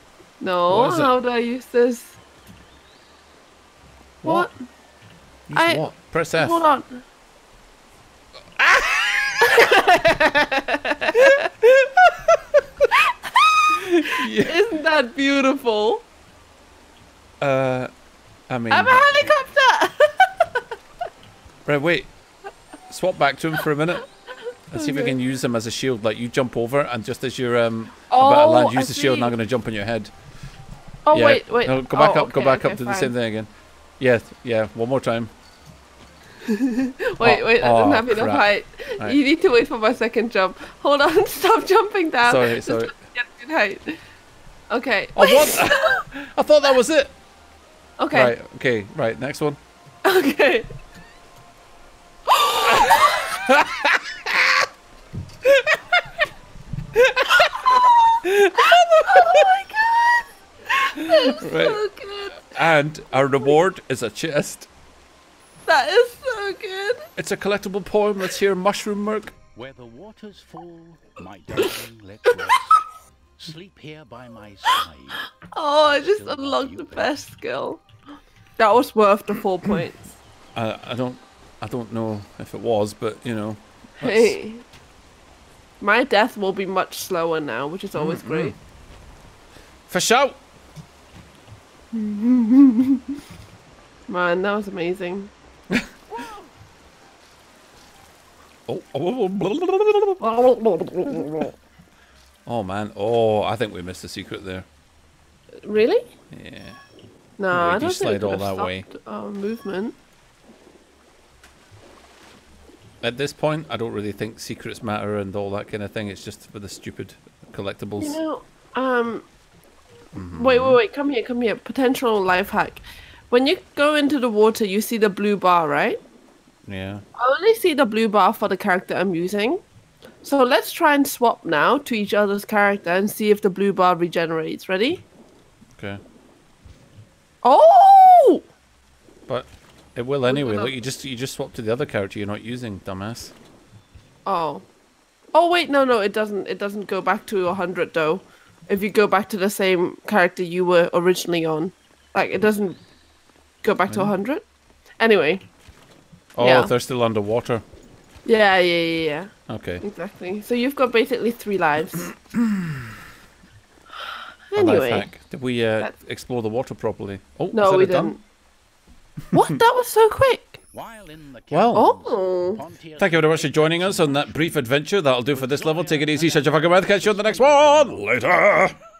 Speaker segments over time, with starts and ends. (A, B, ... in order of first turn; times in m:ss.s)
0:00.4-0:02.2 A
0:00.7-0:01.1 B
0:04.2-0:04.5 B
0:04.2-0:04.5 A
0:05.5-0:06.6 B
0:05.5-0:07.0 A
0:08.6-0:09.6 B
0:09.4-0:11.5 A
0:11.1-0:12.6 B
0:13.1-0:16.0 A
0:13.8-0:14.6 B
0:17.4-0:17.9 B
0:18.5-0:19.2 B
0:18.7-0:20.6 A
0:21.6-0:22.1 B
0:22.9-0:24.0 B
0:24.7-0:30.1 B
0:24.7-0:25.1 A
0:28.1-0:29.3 A
0:31.1-0:33.1 A
0:31.1-0:35.3 B
0:36.4-0:44.0 A
0:37.2-0:39.2 B
0:42.2-0:42.9 B
0:44.7-0:46.0 A
0:45.2-0:47.1 B
0:48.0-0:48.3 A
0:48.1-0:49.6 B
0:50.0-0:50.7 A
0:52.3-0:53.4 A
0:52.7-0:54.6 B
0:56.9-0:59.5 B
0:57.3-1:02.5 A
1:01.3-1:01.8 B
1:02.4-1:04.7 B
1:05.6-1:07.0 A
1:07.2-1:09.3 B
1:09.5-1:12.8 C
1:13.4-1:17.2 C
1:15.4-1:17.8 A
1:18.6-1:20.1 A
1:20.5-1:24.4 B
1:24.0-1:24.6 A
1:25.8-1:28.6 A
1:28.0-1:28.6 B
1:29.9-1:30.4 B
1:31.9-1:33.0 A
1:34.1-1:35.3 A
1:38.7-1:40.2 B
1:40.2-1:41.5 A
1:42.4-1:44.6 B
1:45.6-1:46.1 A
1:46.3-1:46.8 B
1:47.4-1:49.9 A
1:47.5-1:48.9 B
1:53.0-1:58.2 B
1:58.0-1:59.2 A
2:00.1-2:00.8 B
2:00.4-2:06.0 A
2:06.6-2:07.0 B
2:07.2-2:09.6 A
2:10.2-2:15.0 A
2:15.8-2:16.0 B
2:17.4-2:18.4 A
2:19.3-2:23.3 B
2:20.3-2:20.7 A
2:24.2-2:24.6 A
2:25.3-2:32.8 A
2:33.6-2:34.4 A
2:35.0-2:35.4 A
2:36.4-2:37.6 B
2:36.4-2:36.7 A
2:38.2-2:42.1 A
2:39.5-2:39.8 B
2:42.4-2:42.9 B
2:44.1-2:45.1 A
2:44.6-2:48.2 B
2:47.5-2:48.2 A
2:49.3-2:50.6 A
2:50.7-2:54.5 C
2:51.5-2:51.9 B
2:51.7-2:52.6 A
2:53.0-2:58.8 B
2:55.3-2:58.1 C